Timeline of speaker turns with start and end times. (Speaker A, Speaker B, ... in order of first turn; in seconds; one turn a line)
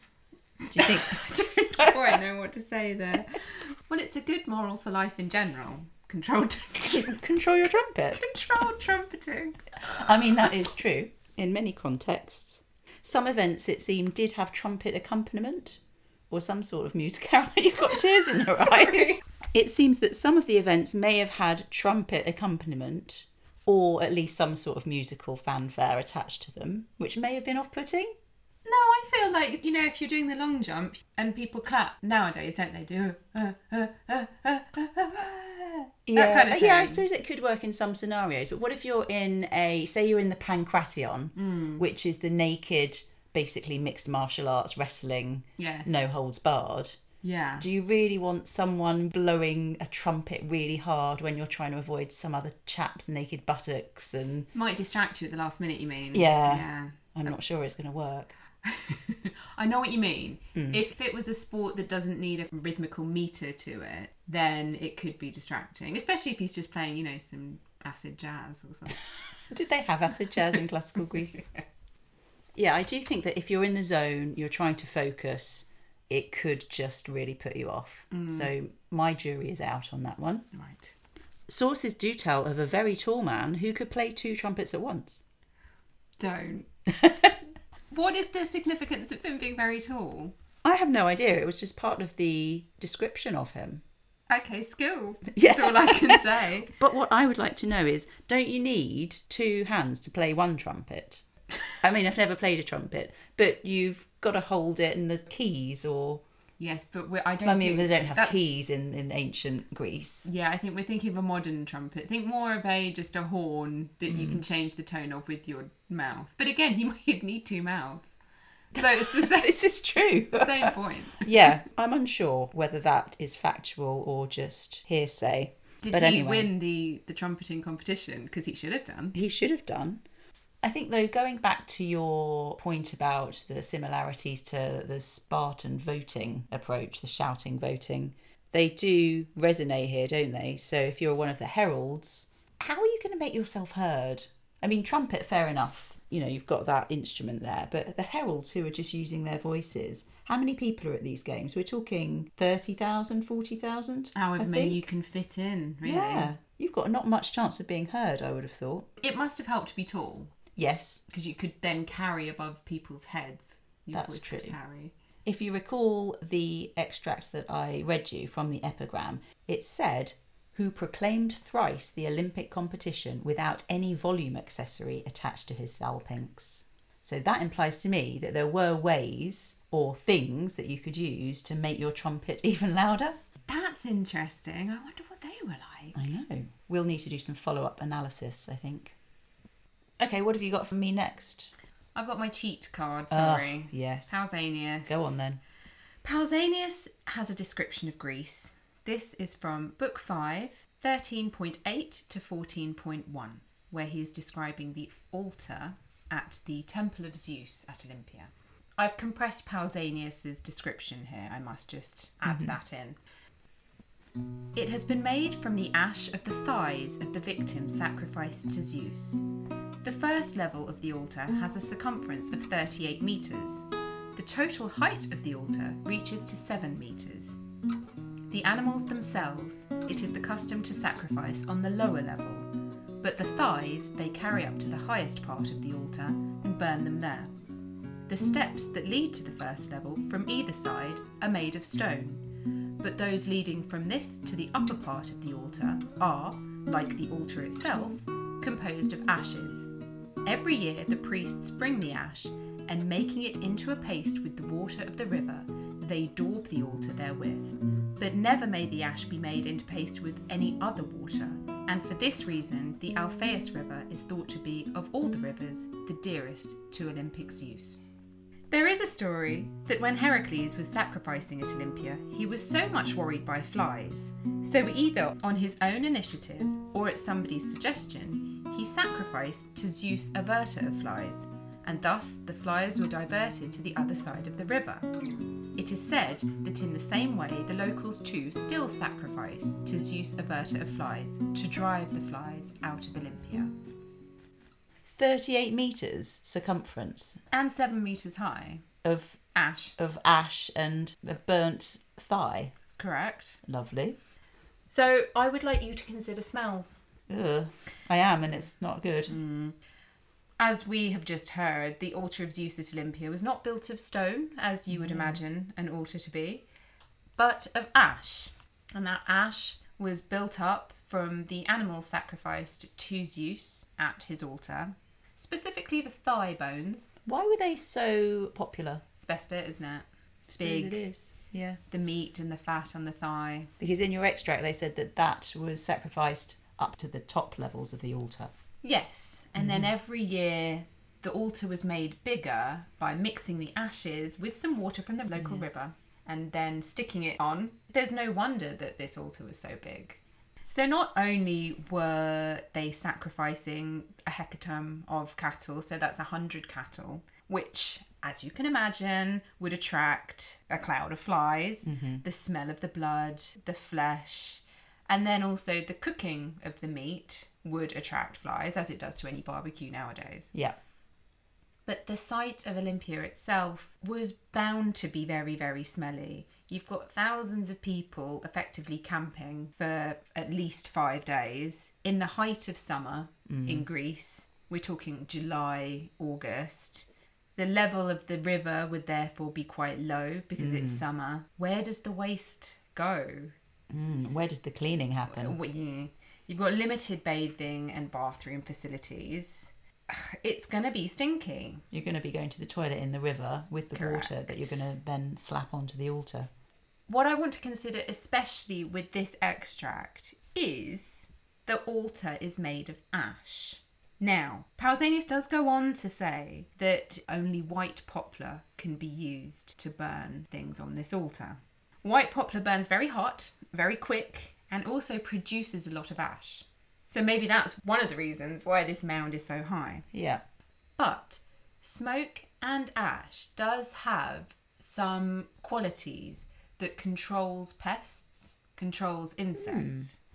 Speaker A: 0.7-2.2
Speaker B: 0.7-7.2
Speaker A: 6.9-8.3
Speaker B: 8.1-10.1
Speaker A: 9.8-28.1
Speaker B: 18.4-19.2
Speaker B: 28.6-37.0
Speaker A: 36.1-47.0
Speaker B: 41.4-41.8
Speaker B: 45.6-46.1
Speaker B: 47.2-47.7
Speaker A: 47.6-54.5
Speaker B: 54.5-57.3
Speaker A: 56.1-58.4
Speaker B: 58.6-69.0
Speaker A: 60.6-60.8
Speaker A: 69.5-71.4
Speaker A: 72.6-80.5
Speaker B: 78.1-78.5
Speaker B: 80.5-81.0
Speaker A: 81.5-85.2
Speaker B: 86.2-86.7
Speaker A: 86.9-87.3
Speaker B: 87.9-90.3
Speaker A: 90.6-93.8
Speaker B: 94.3-96.8
Speaker A: 95.3-101.2
Speaker A: 101.8-106.2
Speaker B: 106.6-108.4
Speaker A: 107.5-110.3
Speaker B: 110.2-118.2
Speaker A: 114.1-114.4
Speaker B: 118.7-119.7
Speaker A: 118.8-126.5
Speaker B: 120.2-121.6
Speaker B: 125.8-129.2
Speaker A: 129.1-130.0
Speaker A: 130.6-154.8
Speaker B: 154.2-156.3
Speaker A: 155.8-158.9
Speaker B: 159.0-160.3
Speaker A: 160.6-161.0
Speaker B: 161.1-164.9
Speaker A: 163.9-164.6
Speaker A: 165.2-183.2
Speaker B: 183.5-186.0
Speaker A: 185.9-189.0
Speaker A: 190.0-191.5
Speaker B: 191.9-195.1
Speaker A: 193.1-194.2
Speaker A: 194.9-195.4
Speaker B: 196.0-213.0
Speaker A: 212.3-212.6
Speaker B: 214.6-219.2
Speaker B: 219.8-227.4
Speaker B: 228.3-232.5
Speaker B: 233.0-237.3
Speaker B: 238.1-249.7
Speaker B: 250.2-267.8
Speaker B: 268.5-284.9
Speaker B: 285.6-293.5
Speaker A: 294.9-297.2
Speaker B: 297.3-298.6
Speaker A: 298.8-299.2
Speaker B: 299.3-299.8
Speaker A: 299.8-302.6
Speaker B: 302.7-303.4
Speaker A: 303.4-304.0
Speaker B: 304.7-306.8
Speaker A: 307.1-309.2
Speaker B: 309.1-309.6
Speaker B: 310.4-316.4
Speaker A: 314.7-315.2
Speaker B: 317.2-327.0
Speaker A: 327.1-328.9
Speaker B: 329.0-330.9
Speaker A: 330.3-331.6
Speaker B: 331.7-333.5
Speaker A: 333.6-338.3
Speaker B: 338.6-370.3
Speaker A: 339.4-339.7
Speaker A: 361.6-362.0
Speaker B: 371.7-393.3
Speaker A: 383.3-383.7
Speaker A: 390.4-390.8
Speaker A: 393.7-395.4
Speaker B: 395.1-401.6
Speaker A: 401.7-406.3
Speaker B: 403.7-404.7
Speaker B: 406.9-429.9
Speaker A: 429.9-430.2
Speaker B: 430.8-440.0
Speaker A: 439.4-439.9